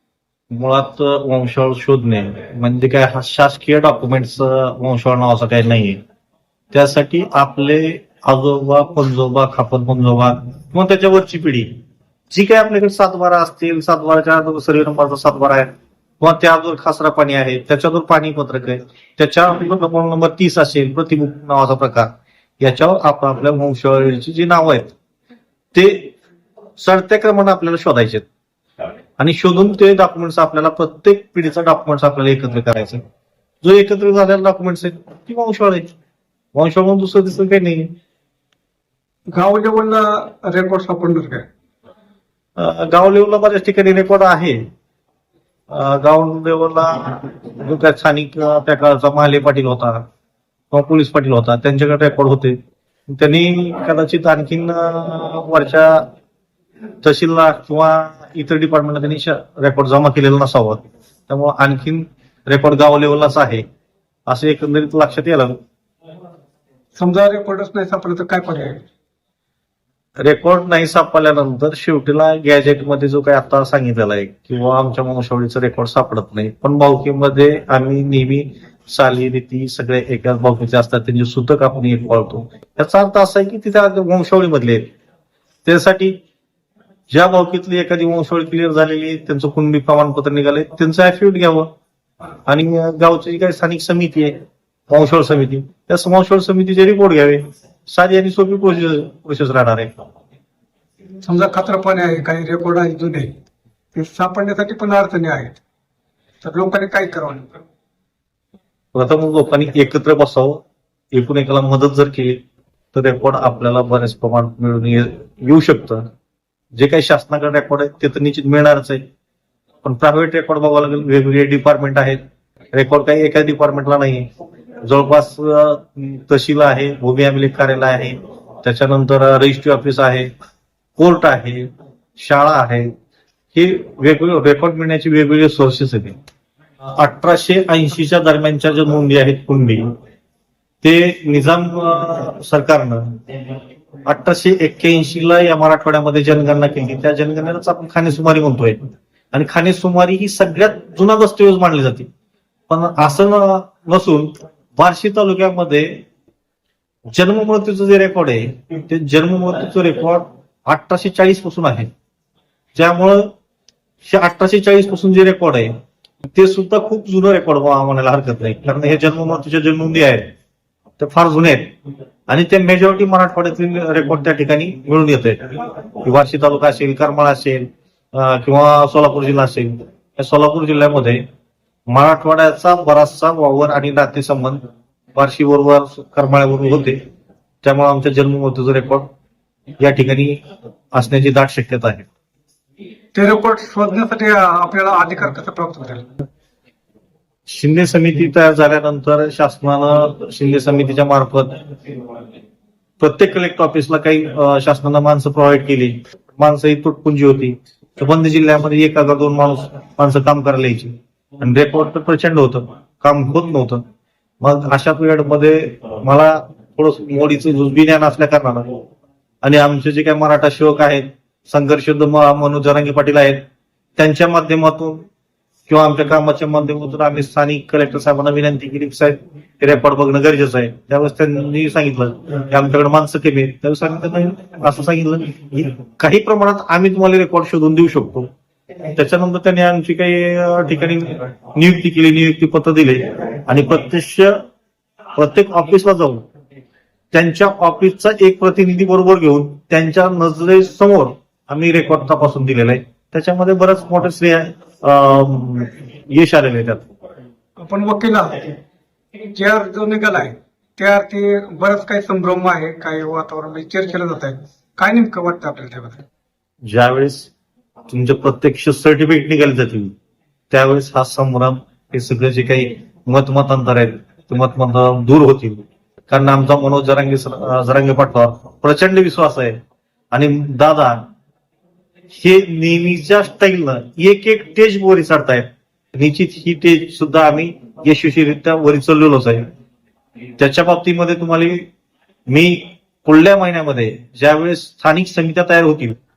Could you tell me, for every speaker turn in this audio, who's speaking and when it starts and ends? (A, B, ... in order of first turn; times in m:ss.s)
0:00.5-0:06.0 A
0:06.7-0:11.8 A
0:12.3-0:22.1 A
0:22.6-0:24.9 A
0:25.7-0:26.1 A
0:26.8-0:28.2 A
0:29.2-0:33.0 A
0:33.6-0:35.9 A
0:36.5-0:38.0 A
0:39.3-0:41.4 B
0:42.6-0:44.6 A
0:45.7-0:50.0 A
0:50.7-0:52.6 A
0:53.1-0:56.1 A
0:57.0-1:03.6 A
1:04.3-1:05.6 A
1:07.0-1:08.8 B
1:10.2-1:24.9 A
1:25.6-1:26.2 A
1:27.1-1:31.7 A
1:32.5-1:34.4 A
1:34.9-1:40.0 A
1:41.2-1:43.3 B
1:43.9-1:45.6 B
1:46.4-1:47.6 B
1:48.9-1:52.4 A
1:52.9-1:56.0 A
1:56.8-1:59.0 A
1:59.8-2:02.2 A
2:02.7-2:04.3 A
2:04.8-2:10.3 A
2:11.0-2:11.7 A
2:12.2-2:12.9 A
2:13.5-2:16.2 A
2:16.8-2:19.9 A
2:20.8-2:23.1 A
2:24.1-2:28.8 A
2:29.3-2:32.1 A
2:32.7-2:36.0 A
2:37.1-2:41.9 A
2:42.8-2:43.3 A
2:44.0-2:45.7 A
2:46.3-2:50.3 A
2:51.0-2:51.8 A
2:52.3-3:01.2 A
3:01.9-3:04.6 A
3:05.2-3:07.0 A
3:07.6-3:09.1 A
3:09.8-3:10.4 A
3:10.9-3:12.1 A
3:13.1-3:16.1 B
3:17.5-3:21.6 A
3:23.0-3:33.8 A
3:34.4-3:38.8 A
3:39.4-3:43.4 A
3:44.0-3:45.0 A
3:45.7-3:58.3 A
3:59.0-4:04.4 A
4:05.2-4:06.3 A
4:07.1-4:16.8 A
4:17.6-4:18.6 B
4:19.3-4:26.0 B
4:26.7-4:27.3 A
4:27.9-4:29.9 A
4:30.5-4:39.6 A
4:40.1-4:41.1 A
4:42.1-4:49.5 A
4:50.4-4:51.7 A
4:52.3-4:56.0 A